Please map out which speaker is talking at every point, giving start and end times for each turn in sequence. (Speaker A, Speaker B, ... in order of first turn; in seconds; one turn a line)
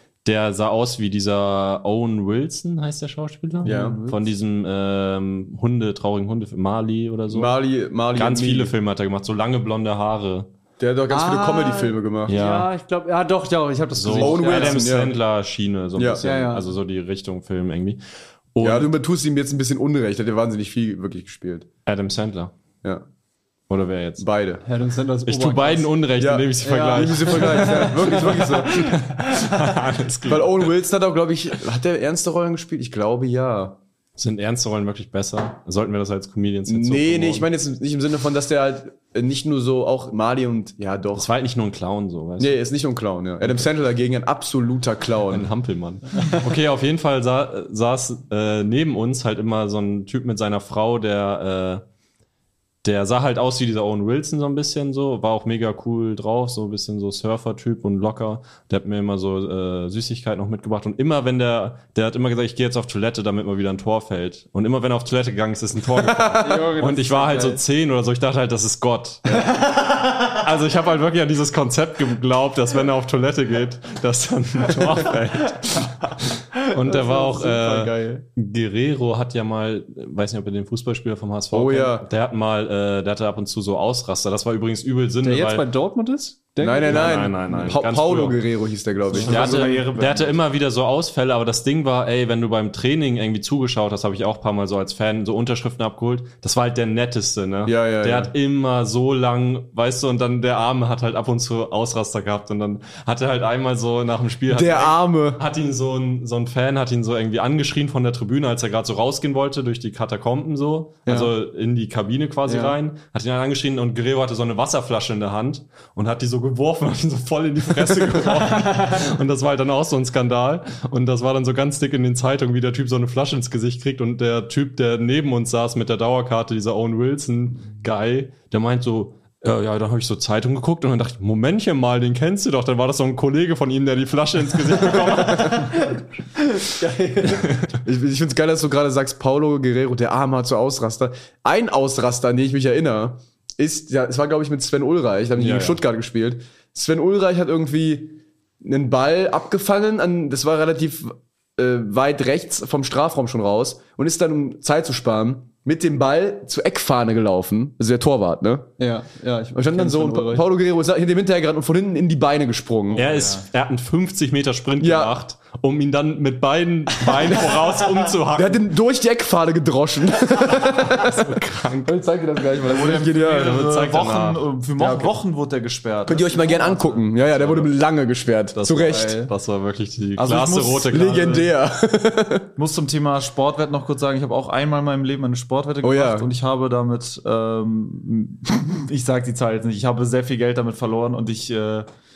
Speaker A: 0.2-7.6
Speaker B: 3.6-4.3
Speaker C: 3.6-4.0
Speaker C: 7.3-8.7
Speaker A: 8.2-10.5
Speaker C: 10.8-12.3
Speaker B: 11.1-14.9
Speaker A: 12.3-12.7
Speaker A: 14.0-18.0
Speaker C: 14.2-15.2
Speaker C: 16.0-16.2
Speaker B: 16.2-16.7
Speaker A: 18.5-18.9
Speaker C: 18.6-21.7
Speaker A: 21.9-22.5
Speaker A: 23.7-24.3
Speaker C: 24.2-24.6
Speaker B: 24.7-25.9
Speaker A: 25.3-30.7
Speaker C: 26.2-28.9
Speaker B: 26.6-29.7
Speaker C: 30.3-33.8
Speaker A: 34.2-37.5
Speaker C: 36.7-41.3
Speaker A: 41.1-42.6
Speaker C: 42.4-45.5
Speaker A: 43.4-43.7
Speaker A: 45.3-51.8
Speaker A: 52.8-85.7
Speaker B: 66.4-67.6
Speaker B: 69.5-69.9
Speaker B: 76.6-78.2
Speaker C: 81.5-82.1
Speaker B: 85.2-87.3
Speaker C: 86.6-89.6
Speaker A: 86.8-88.4
Speaker D: 89.1-90.4
Speaker A: 89.2-135.8
Speaker C: 97.7-98.3
Speaker C: 104.5-105.4
Speaker B: 111.1-111.3
Speaker B: 112.5-112.8
Speaker B: 135.2-137.5
Speaker A: 137.3-137.7
Speaker C: 137.8-158.7
Speaker A: 145.4-145.8
Speaker B: 158.8-160.5
Speaker C: 159.5-163.0
Speaker D: 162.9-163.5
Speaker A: 163.0-168.7
Speaker C: 164.8-165.2
Speaker C: 168.3-173.7
Speaker A: 170.8-171.9
Speaker D: 172.6-177.1
Speaker A: 173.3-174.4
Speaker C: 174.8-175.1
Speaker C: 176.1-179.3
Speaker A: 177.4-177.7
Speaker A: 178.5-181.5
Speaker B: 178.9-179.2
Speaker D: 180.2-181.4
Speaker C: 180.9-182.5
Speaker D: 182.6-191.9
Speaker C: 185.8-186.3